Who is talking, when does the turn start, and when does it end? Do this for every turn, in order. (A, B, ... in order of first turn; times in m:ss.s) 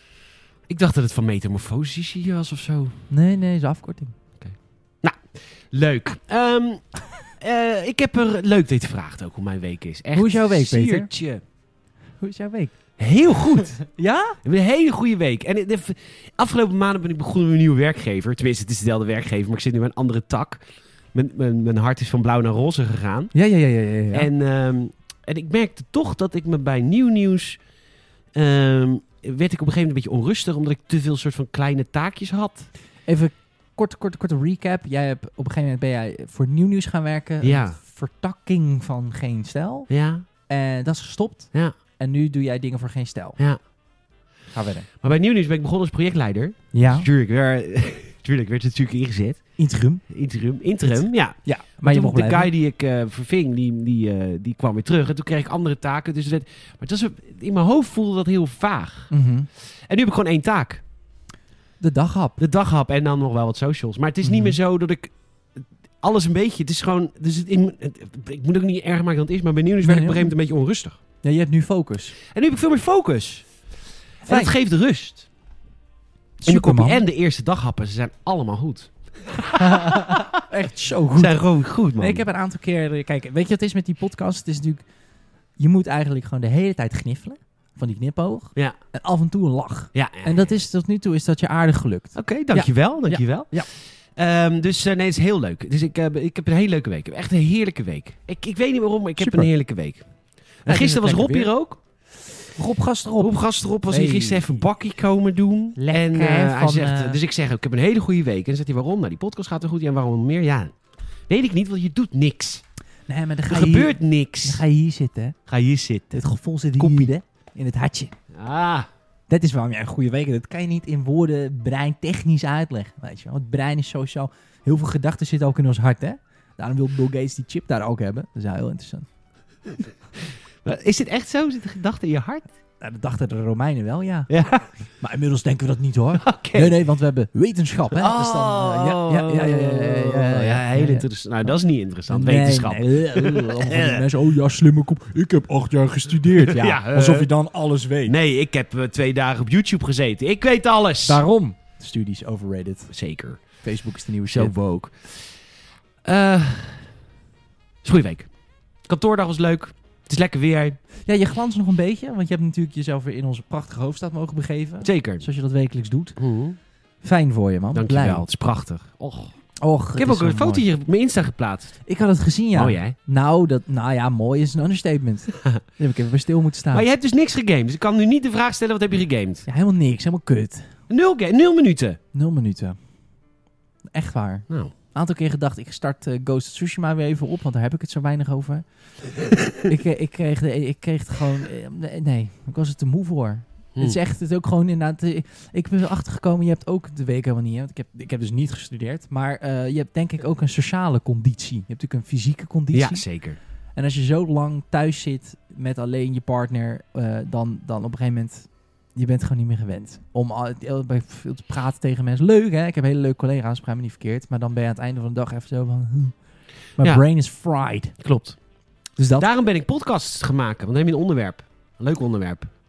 0:00.7-0:03.0 A
0:03.1-0:04.2 B
0:04.4-0:11.4 A
0:10.2-0:11.1 B
0:12.2-0:12.8 B
0:13.0-0:13.8 A
0:13.8-0:14.4 B
0:14.4-0:20.6 A
0:21.1-0:23.3 A
0:23.3-0:24.3 B
0:24.1-0:27.6 A
0:28.4-0:32.7 A
0:33.1-0:43.4 B
0:37.4-0:37.8 A
0:39.9-0:40.3 A
0:44.5-0:44.9 B
0:45.0-0:49.5 A
0:46.7-0:47.1 B
0:49.6-0:50.0 B
0:50.1-0:59.1 A
0:50.9-0:52.5 B
0:59.1-0:59.5 B
0:59.9-1:00.8 A
1:01.8-1:02.4 B
1:02.4-1:05.1 A
1:04.2-1:04.6 B
1:06.0-1:11.0 A
1:09.8-1:10.3 B
1:11.2-1:12.2 B
1:12.3-1:13.5 A
1:14.2-1:15.3 A
1:14.2-1:14.6 B
1:16.4-1:17.0 B
1:16.5-1:20.4 A
1:19.6-1:21.4 B
1:21.2-1:22.2 A
1:22.0-1:24.8 B
1:25.6-1:33.7 B
1:29.9-1:30.5 A
1:32.2-1:40.1 A
1:39.2-1:39.5 B
1:40.6-1:41.8 A
1:40.7-1:41.5 B
1:42.6-1:44.6 B
1:43.2-1:50.7 A
1:45.8-1:47.2 B
1:51.3-1:52.6 A
1:53.1-1:55.4 B
1:53.5-1:54.6 A
1:55.5-1:56.2 A
1:56.1-1:58.1 B
1:56.8-1:57.1 A
1:58.3-1:58.9 A
1:59.3-2:09.1 B
2:10.6-2:12.5 A
2:12.8-2:14.3 B
2:14.3-2:14.7 A
2:15.0-2:21.1 B
2:16.2-2:16.8 A
2:18.0-2:24.0 A
2:22.1-2:28.2 B
2:26.4-2:27.3 A
2:28.1-2:31.2 A
2:31.1-2:32.9 B
2:32.9-2:33.4 A
2:33.6-2:34.5 B
2:34.3-2:35.2 A
2:36.0-2:36.9 A
2:37.8-2:38.3 A
2:38.9-2:40.8 A
2:41.1-2:46.2 B
2:44.8-2:45.3 A
2:46.2-2:46.6 A
2:47.0-2:48.3 B
2:47.7-2:49.3 A
2:49.6-2:50.6 B
2:50.0-2:51.8 A
2:51.9-2:56.9 B
2:52.6-2:53.0 A
2:56.7-2:59.5 A
2:59.5-3:00.7 B
3:00.9-3:02.0 A
3:02.1-3:02.8 B
3:03.9-3:08.6 B
3:09.6-3:23.1 B
3:22.7-3:23.4 A
3:23.8-3:36.2 B
3:36.8-3:38.0 B
3:38.0-3:38.4 A
3:39.0-3:39.3 B
3:39.2-3:42.5 A